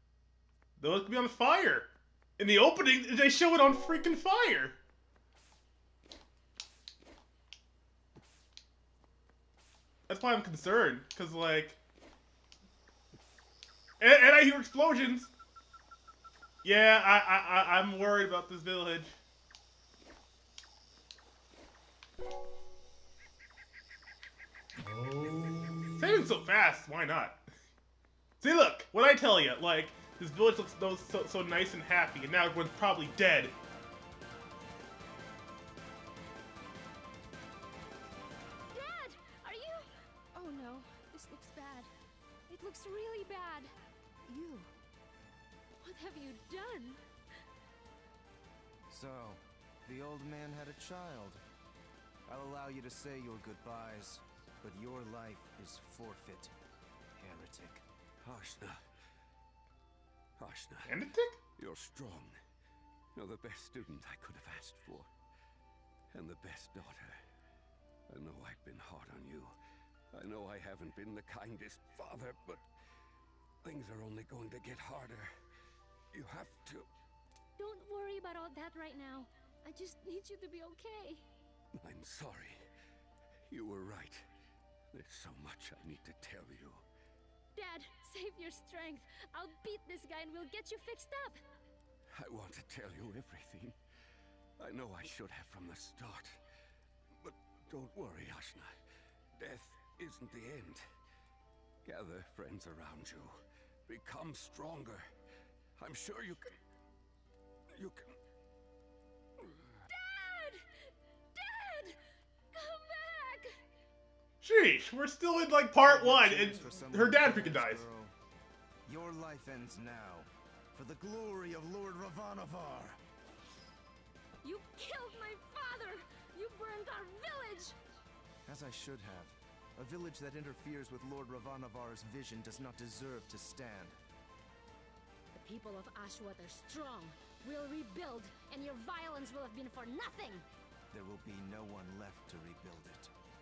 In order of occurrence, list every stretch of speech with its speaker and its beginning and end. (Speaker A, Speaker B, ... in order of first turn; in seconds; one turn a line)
Speaker A: 0.8-4.8
Speaker A: 10.1-11.8
Speaker A: 14.0-15.3
Speaker A: 16.6-19.2
Speaker A: 25.9-27.4
Speaker A: 28.4-33.6
Speaker B: 38.7-41.9
Speaker B: 42.5-43.7
Speaker B: 44.2-44.7
Speaker B: 45.8-47.0
Speaker C: 48.9-51.4
Speaker C: 52.3-56.5
Speaker C: 57.2-57.8
Speaker D: 58.2-58.8
Speaker D: 60.4-61.0
Speaker A: 60.9-61.4
Speaker D: 61.6-62.4
Speaker D: 63.1-65.1
Speaker D: 66.1-67.2
Speaker D: 68.1-69.5
Speaker D: 70.1-72.6
Speaker D: 73.6-75.3
Speaker D: 76.1-76.9
Speaker B: 77.6-81.2
Speaker D: 81.8-82.6
Speaker D: 83.5-84.3
Speaker D: 84.9-86.8
Speaker B: 87.5-91.4
Speaker D: 92.1-93.8
Speaker D: 94.6-96.4
Speaker D: 97.2-98.8
Speaker D: 99.4-100.8
Speaker D: 101.8-103.4
Speaker D: 103.9-105.0
Speaker D: 105.8-106.5
Speaker D: 107.8-108.2
Speaker B: 109.9-110.7
Speaker B: 111.3-112.0
Speaker B: 112.5-113.5
Speaker A: 114.4-117.8
Speaker C: 115.8-118.1
Speaker C: 118.8-123.0
Speaker B: 124.4-127.8
Speaker C: 128.5-134.0
Speaker B: 135.3-140.4
Speaker C: 140.9-143.1